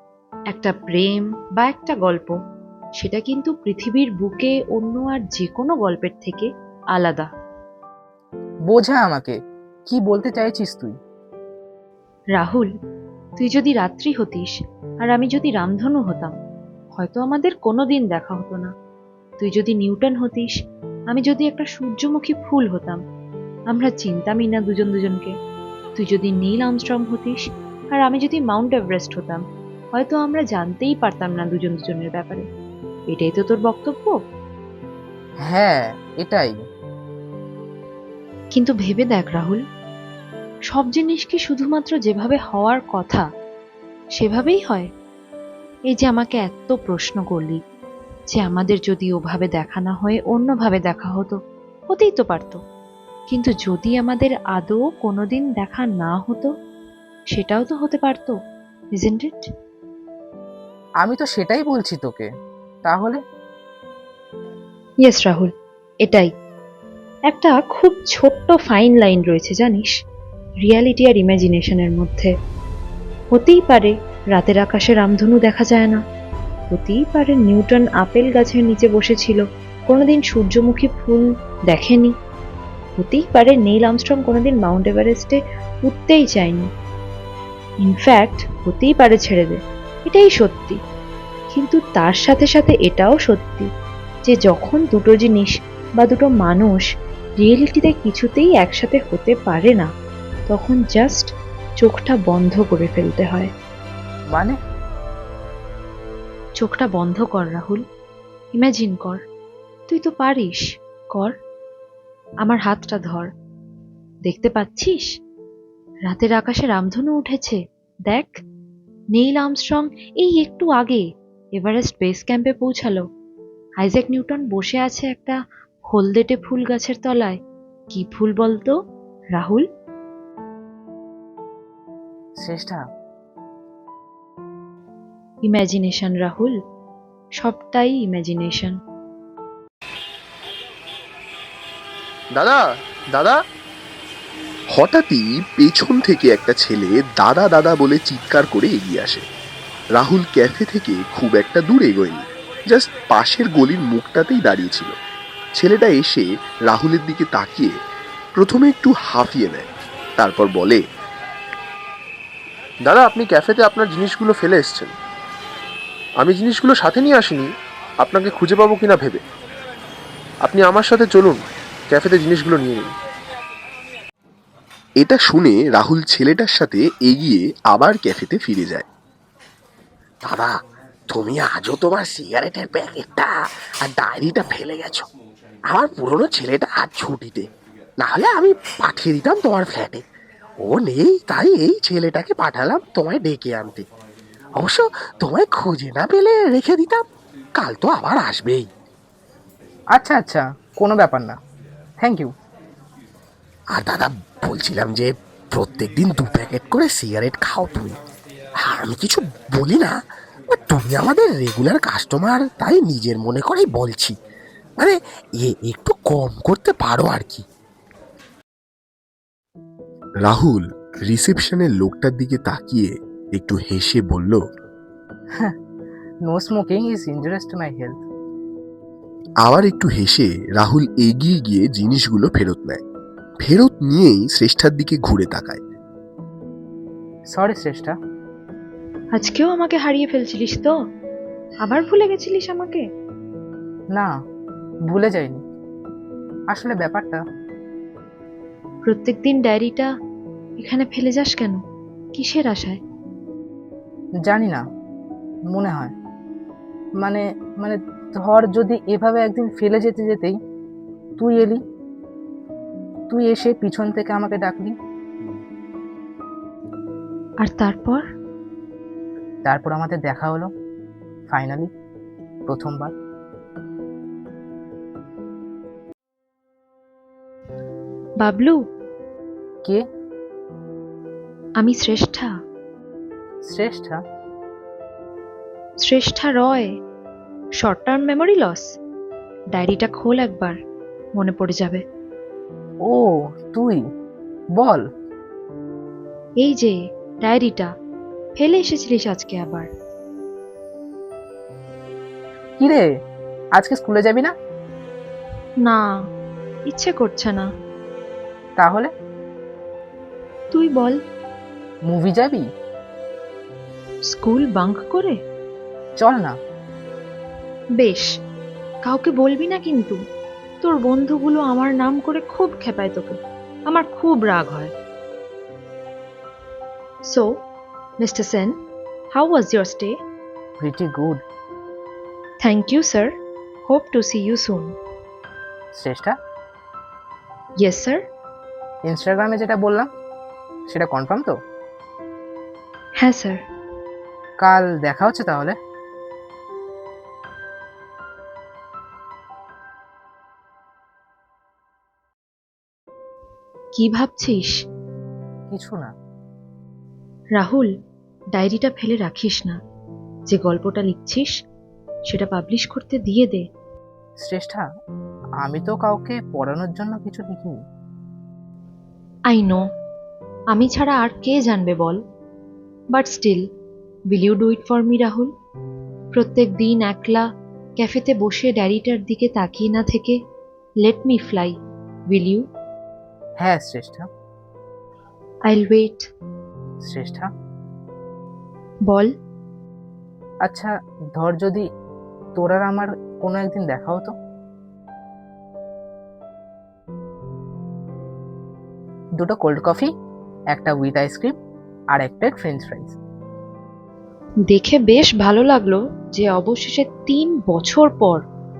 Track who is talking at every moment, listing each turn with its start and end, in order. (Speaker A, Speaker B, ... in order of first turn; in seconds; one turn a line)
Speaker A: 0.5-2.4
Speaker A: 3.0-7.3
Speaker B: 8.7-10.9
Speaker A: 12.3-12.7
Speaker A: 13.4-16.3
Speaker A: 16.9-18.7
Speaker A: 19.4-20.5
Speaker A: 21.1-23.0
Speaker A: 23.7-25.3
Speaker A: 25.9-29.4
Speaker A: 29.9-32.5
Speaker A: 33.1-34.2
Speaker B: 35.5-36.5
Speaker A: 38.5-39.6
Speaker A: 40.7-43.2
Speaker A: 44.1-44.9
Speaker A: 45.9-47.6
Speaker A: 48.3-51.4
Speaker A: 51.9-52.6
Speaker A: 53.3-56.5
Speaker A: 57.3-58.4
Speaker A: 59.0-59.5
Speaker B: 61.0-62.3
Speaker B: 62.9-63.2
Speaker A: 65.0-65.5
Speaker A: 66.0-66.3
Speaker A: 67.3-69.9
Speaker A: 70.6-72.3
Speaker A: 73.3-76.0
Speaker A: 76.7-82.1
Speaker A: 83.0-86.7
Speaker A: 87.8-90.8
Speaker A: 91.5-93.7
Speaker A: 94.2-96.8
Speaker A: 97.4-99.9
Speaker A: 100.5-103.5
Speaker B: 104.3-104.6
Speaker A: 106.6-107.8
Speaker A: 108.5-109.2
Speaker A: 109.9-111.3
Speaker A: 112.4-113.3
Speaker A: 114.2-115.1
Speaker A: 116.1-118.4
Speaker A: 119.1-121.0
Speaker A: 121.5-123.0
Speaker A: 123.8-125.4
Speaker A: 125.9-127.4
Speaker A: 127.9-128.7
Speaker A: 129.3-129.6
Speaker B: 132.4-132.8
Speaker A: 135.4-136.6
Speaker A: 137.4-138.8
Speaker C: 142.3-142.6
Speaker D: 144.7-149.2
Speaker D: 149.9-154.9
Speaker D: 155.5-157.7
Speaker D: 158.3-159.7
Speaker D: 160.2-160.8
Speaker C: 162.8-164.9
Speaker C: 166.2-167.5
Speaker C: 168.0-169.2
Speaker C: 170.4-172.9
Speaker D: 175.0-178.8
Speaker E: 180.2-180.5
Speaker E: 181.1-183.3
Speaker E: 183.8-185.1
Speaker E: 185.7-187.4
Speaker E: 188.0-190.0
Speaker E: 190.6-193.8
Speaker E: 194.6-197.0
Speaker E: 197.6-198.7
Speaker B: 199.9-201.4
Speaker B: 202.0-202.3
Speaker E: 203.7-207.9
Speaker E: 208.6-210.0
Speaker E: 210.5-214.1
Speaker E: 214.8-217.4
Speaker D: 220.2-224.4
Speaker B: 226.2-228.0
Speaker D: 229.4-232.8
Speaker D: 233.4-235.6
Speaker B: 237.3-237.9
Speaker A: 239.1-240.7
Speaker A: 241.6-242.8
Speaker B: 244.9-245.4
Speaker B: 246.5-247.2
Speaker A: 248.8-249.9
Speaker A: 250.6-251.6
Speaker A: 252.1-252.8
Speaker B: 254.2-254.6
Speaker B: 255.5-255.9
Speaker B: 257.0-260.4
Speaker B: 261.2-261.6
Speaker B: 263.1-264.8
Speaker A: 267.4-268.0
Speaker B: 269.4-270.5
Speaker B: 271.3-271.7
Speaker B: 272.5-272.9
Speaker A: 278.2-278.6
Speaker A: 281.6-282.3
Speaker B: 283.4-284.0
Speaker A: 285.8-286.7
Speaker A: 287.6-288.7
Speaker A: 289.5-290.6
Speaker A: 291.1-291.8
Speaker B: 292.8-293.8
Speaker B: 294.6-294.9
Speaker A: 296.4-297.7
Speaker A: 298.4-299.7
Speaker B: 302.6-302.9
Speaker B: 303.6-304.3
Speaker A: 305.6-305.9
Speaker A: 306.7-307.5
Speaker B: 308.6-308.9
Speaker A: 310.5-311.0
Speaker B: 311.9-312.4
Speaker A: 314.1-315.2
Speaker B: 316.0-316.4
Speaker A: 317.8-318.1
Speaker A: 318.8-320.0
Speaker A: 320.6-324.7
Speaker A: 327.1-327.4
Speaker A: 328.0-328.6
Speaker A: 329.1-329.9
Speaker B: 330.6-331.2
Speaker A: 332.4-333.1
Speaker A: 333.7-334.7
Speaker B: 335.7-336.1
Speaker A: 337.6-338.0
Speaker B: 338.9-339.9
Speaker B: 340.7-341.4
Speaker A: 343.0-343.4
Speaker B: 344.4-345.5
Speaker A: 353.8-354.5
Speaker B: 355.5-355.9
Speaker A: 357.4-357.7
Speaker A: 358.3-359.6
Speaker A: 360.3-361.3
Speaker A: 362.1-363.4
Speaker B: 364.2-364.6
Speaker B: 365.4-367.6
Speaker A: 369.3-369.6
Speaker A: 370.5-372.0
Speaker A: 372.9-373.4
Speaker A: 374.1-375.3
Speaker A: 376.1-377.2
Speaker A: 377.8-380.2
Speaker A: 380.8-381.6
Speaker A: 382.1-382.5
Speaker B: 383.4-384.1
Speaker A: 385.5-386.1
Speaker B: 386.8-387.3
Speaker A: 388.9-389.1
Speaker B: 390.4-391.6
Speaker B: 392.4-394.1
Speaker B: 399.2-399.9
Speaker B: 400.5-401.4
Speaker B: 401.9-402.9
Speaker A: 404.5-408.2